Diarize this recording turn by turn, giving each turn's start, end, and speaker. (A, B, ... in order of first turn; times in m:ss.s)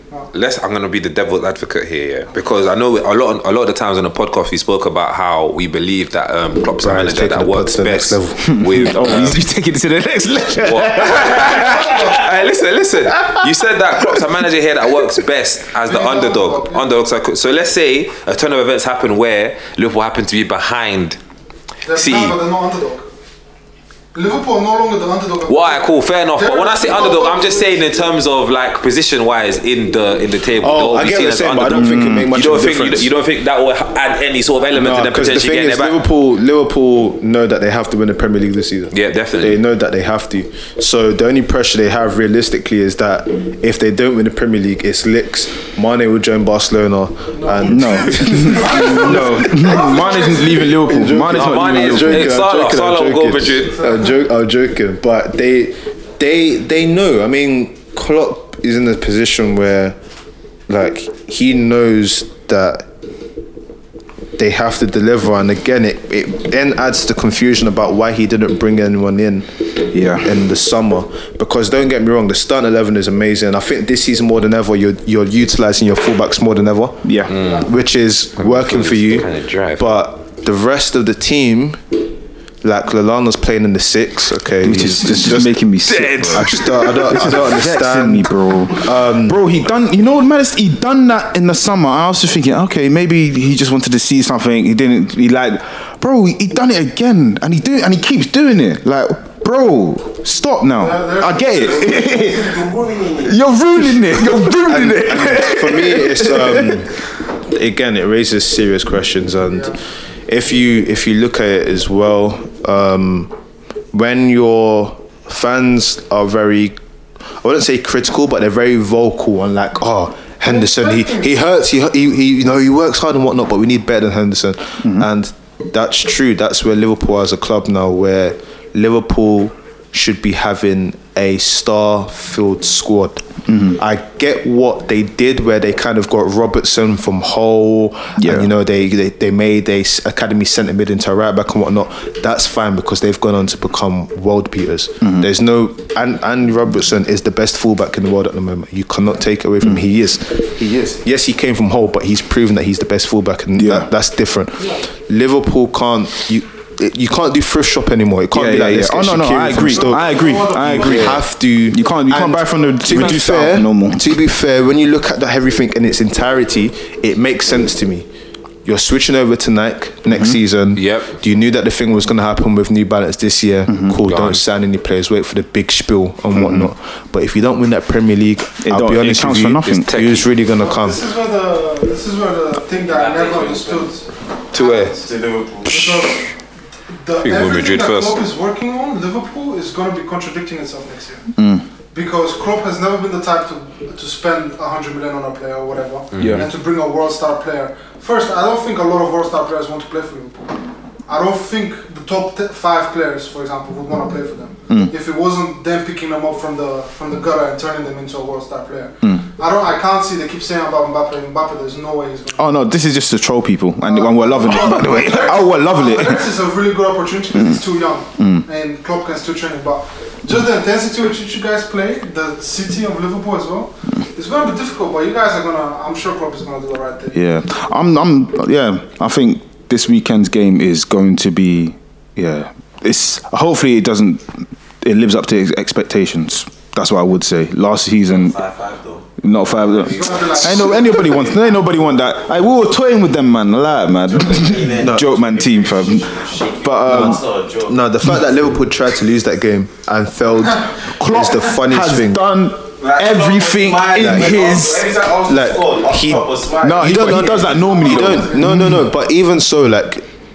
0:00.3-0:09.4 A
0:06.8-0:08.6 B
0:08.4-0:11.9 C
0:10.6-0:21.2 A
0:11.4-0:12.2 D
0:15.9-0:16.9 D
0:21.9-0:23.1 D
0:22.0-0:22.4 A
0:24.1-0:28.1 D
0:25.5-0:36.0 A
0:30.6-0:33.1 B
0:31.7-0:32.3 C
0:34.8-1:00.0 B
0:38.9-0:39.6 A
0:47.3-0:50.7 D
0:47.6-0:52.4 C
0:51.3-0:53.8 A
0:53.8-0:54.1 D
1:00.7-1:02.9 B
1:04.4-1:21.8 B
1:09.9-1:10.4 C
1:17.0-1:17.4 C
1:17.3-1:17.7 A
1:18.4-1:19.9 A
1:22.6-1:25.6 B
1:24.6-1:46.9 C
1:25.8-1:27.4 A
1:26.3-1:29.4 B
1:40.8-1:42.2 D
1:41.5-1:43.4 E
1:44.5-1:46.9 B
1:47.5-1:49.8 B
1:49.5-1:49.8 D
1:50.3-1:53.3 B
1:53.9-1:56.8 B
1:57.4-2:48.1 B
2:00.4-2:01.3 D
2:04.8-2:05.1 C
2:13.5-2:13.8 C
2:18.2-2:18.5 C
2:25.0-2:25.3 C
2:33.6-2:33.9 C
2:38.3-2:44.2 C
2:39.7-2:41.2 D
2:48.6-3:01.0 B
2:50.1-2:50.4 C
2:50.8-2:51.1 A
2:53.7-2:54.2 C
2:54.1-2:54.4 A
2:56.3-2:56.7 C
2:58.6-3:00.0 C
2:59.6-3:00.3 A
3:00.6-3:05.1 D
3:02.9-3:03.9 A
3:04.5-3:05.0 A
3:05.0-3:06.0 E
3:05.6-3:06.3 D
3:06.9-3:11.3 D
3:07.2-3:08.2 A
3:11.4-3:11.6 C
3:11.9-3:20.5 D
3:16.2-3:16.4 A
3:16.2-3:16.5 C
3:21.1-3:32.6 D
3:32.4-3:36.3 C
3:33.8-3:47.2 D
3:37.4-3:37.6 C
3:38.2-3:38.4 C
3:47.1-3:58.4 C
3:58.1-3:59.1 E
3:59.2-4:07.2 C
3:59.7-4:01.4 E
3:59.8-4:01.2 D
4:04.1-4:07.9 E
4:04.8-4:05.1 B
4:06.9-4:12.2 B
4:11.0-4:14.9 C
4:12.8-4:17.6 E
4:14.0-4:14.5 B
4:15.3-4:20.1 B
4:16.6-4:18.9 C
4:17.5-4:18.5 D